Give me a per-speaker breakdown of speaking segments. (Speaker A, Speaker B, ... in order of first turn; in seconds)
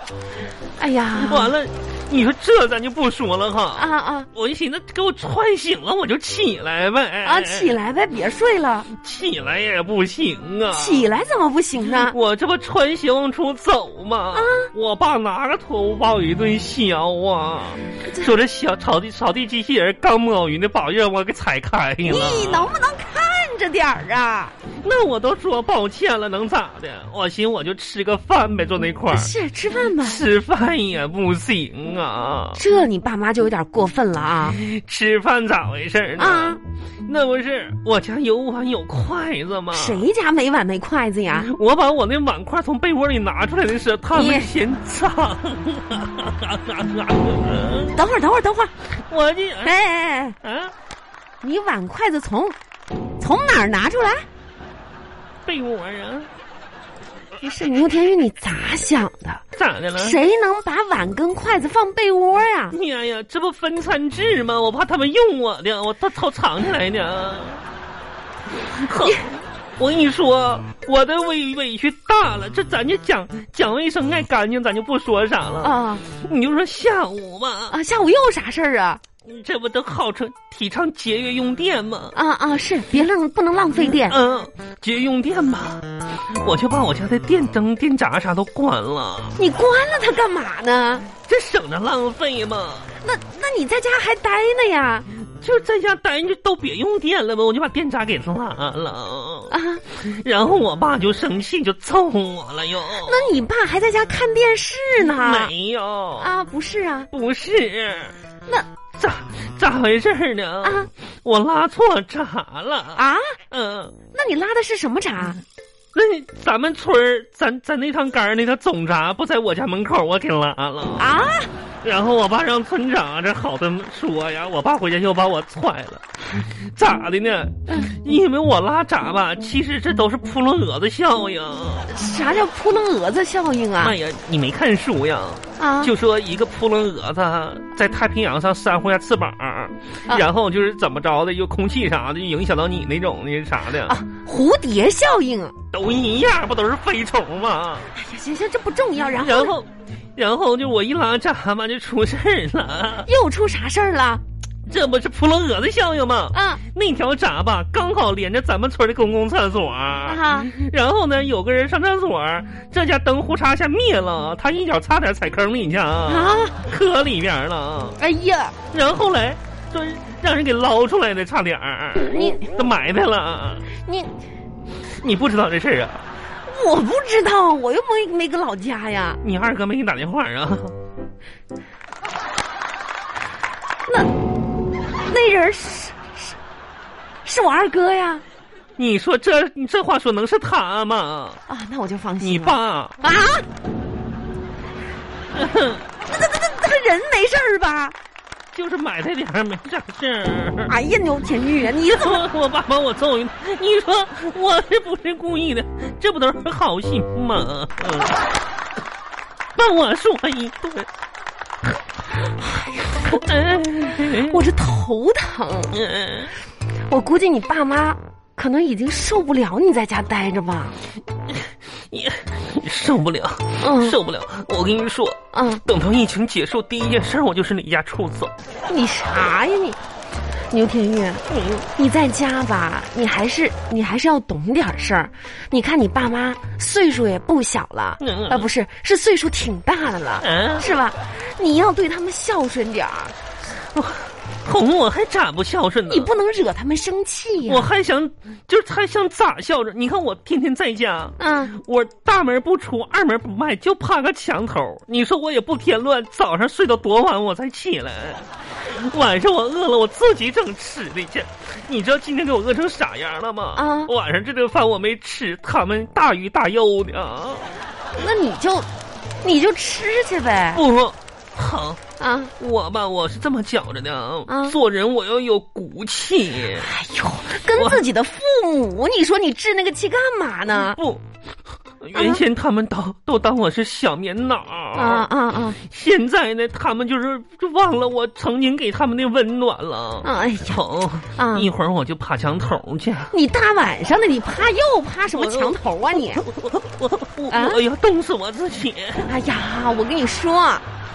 Speaker A: 0.8-1.5, 3.8-4.3, 7.2-8.9, 10.7-12.2, 14.3-14.7, 22.0-24.5, 29.1-30.2, 32.5-34.6, 36.2-36.6, 39.7-41.5, 44.1-44.5, 47.9-48.7, 49.6-50.4, 51.4-52.5, 53.2-54.2, 57.4-59.4, 60.0-62.8, 69.0-69.3, 75.6-76.0, 77.7-79.0, 82.1-84.2, 89.4-91.1, 93.0-95.1, 99.5-99.8, 103.0-105.5, 106.2-107.1, 110.6-110.9, 113.0-113.3, 114.1-115.4, 121.0-121.5, 131.9-134.0, 135.6-135.9, 143.8-145.5, 147.9-149.5, 153.0-154.2, 156.3-156.6, 160.1-160.5, 166.1-166.6, 168.0-168.6, 172.1-172.4, 173.8-174.1, 176.5-179.2, 183.9-184.1, 185.1-186.4, 187.2-188.2, 191.5-193.4, 196.1-197.9, 200.7-202.3, 212.4-213.2, 214.1-215.8, 216.9-220.8, 223.6-224.0, 225.3-225.6, 228.7-229.8, 230.5-231.2, 231.8-243.2, 245.9-247.7, 251.2-251.5, 263.6-263.9, 267.9-268.7, 269.2-270.6, 272.0-272.3, 274.3-274.6, 276.5-280.8, 281.9-282.2, 284.7-285.6, 290.0-290.6, 291.2-291.5, 293.1-296.2, 297.3-297.6, 299.0-300.6
Speaker B: 1.2-7.8, 8.9-11.1, 11.9-22.7, 24.8-29.3, 30.0-32.6, 34.5-40.0, 41.4-48.0, 48.9-49.8, 50.4-50.7, 55.5-56.3, 59.6-60.2, 62.7-67.6, 68.7-77.8, 79.2-82.2, 83.8-89.4, 91.3-92.9, 95.4-103.3, 105.1-106.3, 107.1-108.2, 109.0-114.0, 115.9-121.2, 121.8-131.9, 133.8-144.0, 145.7-147.9, 149.2-153.1, 154.7-168.0, 168.7-173.7, 174.8-176.0, 179.2-180.8, 188.8-191.4, 192.2-193.0, 195.4-195.8, 198.5-200.8, 201.8-208.2, 209.6-210.9, 213.0-214.4, 215.7-216.3, 221.5-228.3, 231.3-231.7, 238.0-238.5, 240.2-240.7, 243.7-246.1, 247.4-267.5, 270.5-271.8, 272.4-276.7, 277.4-277.9, 280.5-281.0, 281.8-285.1, 285.6-293.1, 295.1-299.1